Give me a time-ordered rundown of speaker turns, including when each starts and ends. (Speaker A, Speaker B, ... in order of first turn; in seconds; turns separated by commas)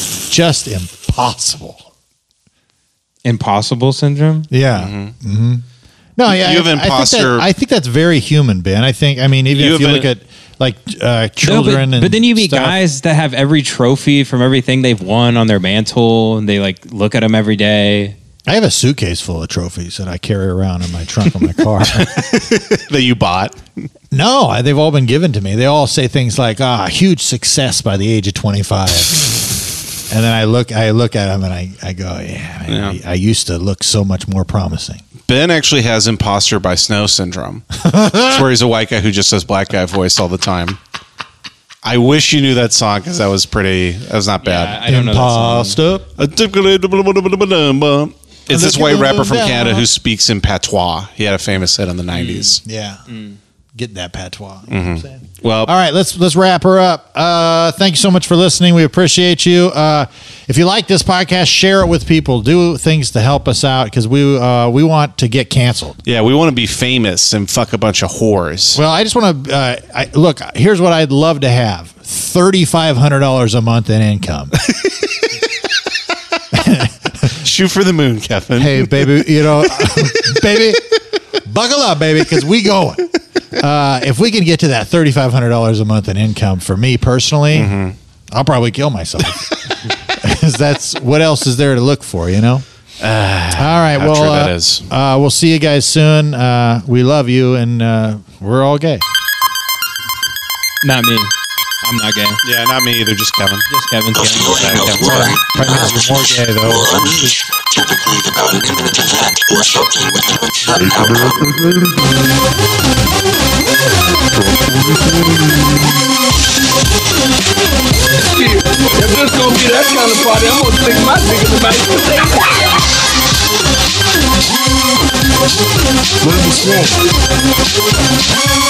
Speaker A: 0.3-1.8, Speaker B: 3.2-4.5, Speaker A: 4.5-5.6, Speaker C: 4.7-5.1, Speaker A: 6.2-12.8, Speaker C: 6.3-7.5, Speaker C: 9.5-10.1, Speaker B: 11.4-18.1, Speaker A: 18.5-22.2, Speaker C: 21.8-23.6, Speaker A: 24.1-29.5, Speaker A: 30.1-35.0, Speaker C: 32.7-33.0, Speaker C: 35.3-40.8, Speaker A: 37.8-38.5, Speaker C: 41.8-44.8, Speaker B: 44.4-45.8, Speaker A: 44.8-46.1, Speaker C: 46.2-52.6, Speaker A: 48.5-49.9, Speaker B: 52.1-52.6, Speaker A: 52.6-53.0, Speaker B: 53.1-53.4, Speaker A: 53.8-66.0, Speaker C: 54.7-55.7, Speaker C: 66.0-68.8, Speaker A: 68.7-74.5, Speaker A: 76.5-77.4, Speaker C: 77.3-79.3, Speaker A: 78.6-87.7, Speaker C: 87.5-87.9, Speaker A: 88.3-92.7, Speaker C: 93.0-94.9, Speaker A: 93.5-99.0, Speaker B: 100.8-101.3, Speaker B: 101.8-102.4, Speaker C: 102.4-103.7, Speaker B: 103.7-105.2, Speaker C: 104.5-105.0, Speaker A: 104.9-107.5, Speaker D: 108.0-112.6, Speaker D: 114.3-116.2, Speaker E: 118.2-122.7, Speaker D: 126.2-127.1